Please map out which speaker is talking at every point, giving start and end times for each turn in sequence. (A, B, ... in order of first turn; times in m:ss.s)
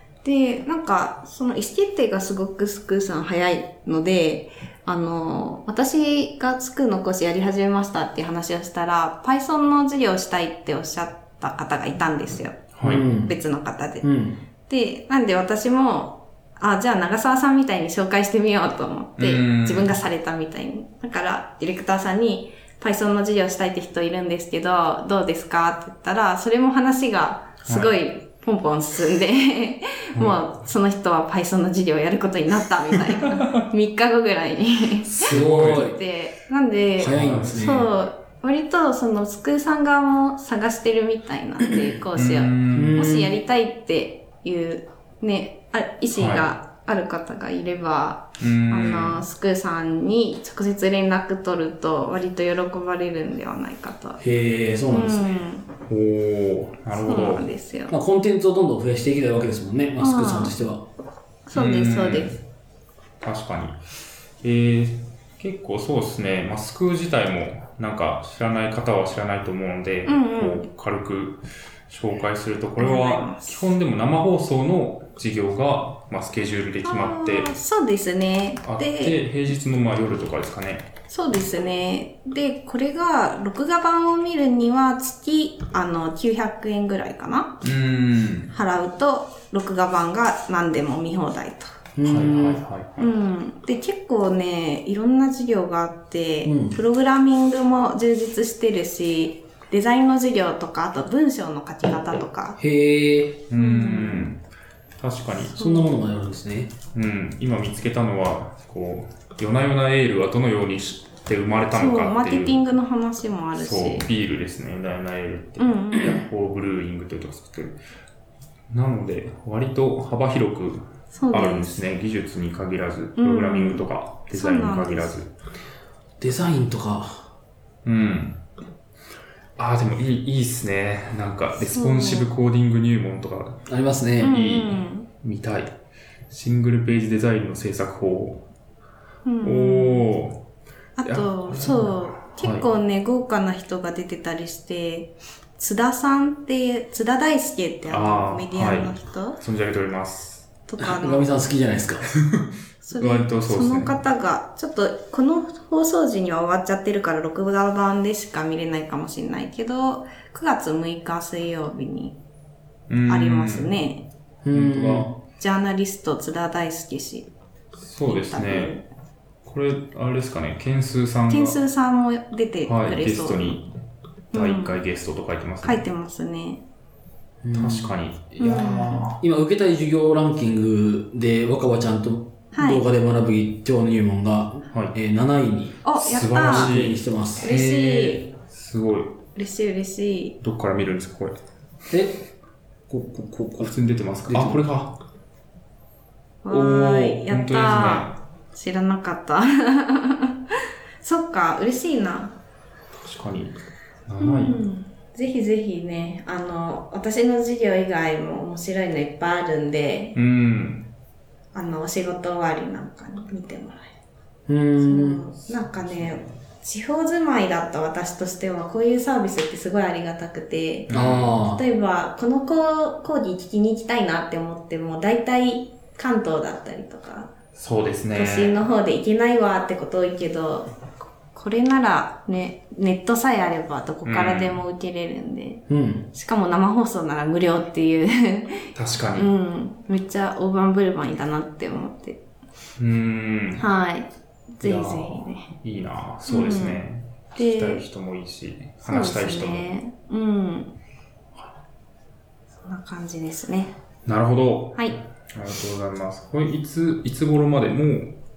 0:00.2-0:14.1 A
0:12.7-0:13.1 B
0:12.8-0:13.3 C
0:14.0-0:14.4 C
0:14.7-0:54.2 A
0:19.2-0:20.0 B
0:27.6-0:27.9 B
0:33.2-0:33.6 B
0:35.1-0:35.9 B
0:35.2-0:36.0 C
0:37.0-0:37.9 C
0:37.1-0:37.8 B
0:42.1-0:43.1 B
0:42.7-0:43.3 C
0:46.1-0:46.5 B
0:48.4-0:49.2 B
0:54.2-0:55.4 C
0:54.9-0:55.7 A
0:55.9-0:57.5 B
0:57.0-0:57.9 A
0:57.9-1:00.8 C
1:00.0-1:00.6 A
1:01.5-1:02.3 A
1:01.5-1:02.4 B
1:03.2-1:03.8 B
1:04.4-1:17.6 B
1:10.0-1:10.6 A
1:12.8-1:13.7 A
1:16.8-1:19.2 A
1:18.6-1:20.9 B
1:21.1-1:27.6 A
1:27.6-1:28.5 B
1:28.5-1:31.7 A
1:32.0-1:32.6 C
1:32.0-1:33.1 B
1:33.0-1:42.6 A
1:36.4-1:36.8 C
1:42.6-1:43.4 C
1:43.5-1:44.4 B
1:43.5-1:44.3 A
1:45.0-1:45.7 B
1:45.5-1:46.7 C
1:45.6-1:45.9 A
1:46.9-1:52.6 B
1:51.7-1:54.1 A
1:53.6-1:57.8 B
1:55.6-1:56.2 A
1:58.7-2:05.3 B
2:01.1-2:01.8 A
2:03.2-2:05.1 A
2:06.2-2:07.3 C
2:07.8-2:08.4 B
2:09.6-2:13.6 B
2:11.7-2:12.3 A
2:13.7-2:14.4 C
2:14.2-2:15.7 B
2:14.2-2:15.1 A
2:16.3-2:18.4 B
2:19.2-2:20.1 A
2:19.4-2:20.4 B
2:21.0-2:29.4 A
2:21.0-2:22.6 B
2:27.9-2:30.5 B
2:30.7-2:31.3 A
2:30.8-2:32.1 C
2:32.1-2:34.0 B
2:32.8-2:42.2 A
2:42.9-2:43.7 B
2:43.1-2:44.0 A
2:44.4-2:45.2 C
2:44.5-2:45.1 B
2:45.4-2:47.3 A
2:47.8-2:48.8 B
2:48.0-2:48.8 A
2:49.4-2:51.6 B
2:51.3-2:53.6 A
2:52.6-2:53.7 B
2:54.3-2:54.8 A
2:54.3-2:55.8 B
2:55.6-2:56.6 A
2:57.4-3:08.2 C
2:57.5-2:59.2 B
2:58.4-2:59.1 A
3:02.5-3:02.8 A
3:04.7-3:05.0 B
3:05.8-3:06.7 A
3:06.0-3:07.0 B
3:07.4-3:08.3 A
3:08.4-3:09.2 B
3:09.4-3:10.4 A
3:10.4-3:11.4 B
3:11.9-3:12.2 C
3:12.9-3:13.7 C
3:13.6-3:14.9 B
3:14.2-3:14.6 C
3:16.4-3:20.4 A
3:16.5-3:18.2 B
3:21.0-3:22.3 A
3:23.0-3:24.6 B
3:24.2-3:30.2 A
3:30.1-3:30.9 B
3:31.5-3:33.9 A
3:34.5-3:35.2 C
3:34.8-3:47.3 A
3:35.7-3:36.2 B
3:40.9-3:41.4 B
3:40.9-3:41.6 C
3:47.5-3:48.6 B
3:48.1-3:50.7 A
3:51.3-4:02.2 A
3:54.0-3:54.6 B
3:55.7-3:56.1 C
3:58.7-3:59.3 B
4:02.8-4:03.6 B
4:03.6-4:05.5 A
4:04.6-4:09.7 B
4:06.3-4:06.8 A
4:07.4-4:07.8 A
4:08.8-4:10.7 A
4:12.6-4:13.7 A
4:14.0-4:18.2 B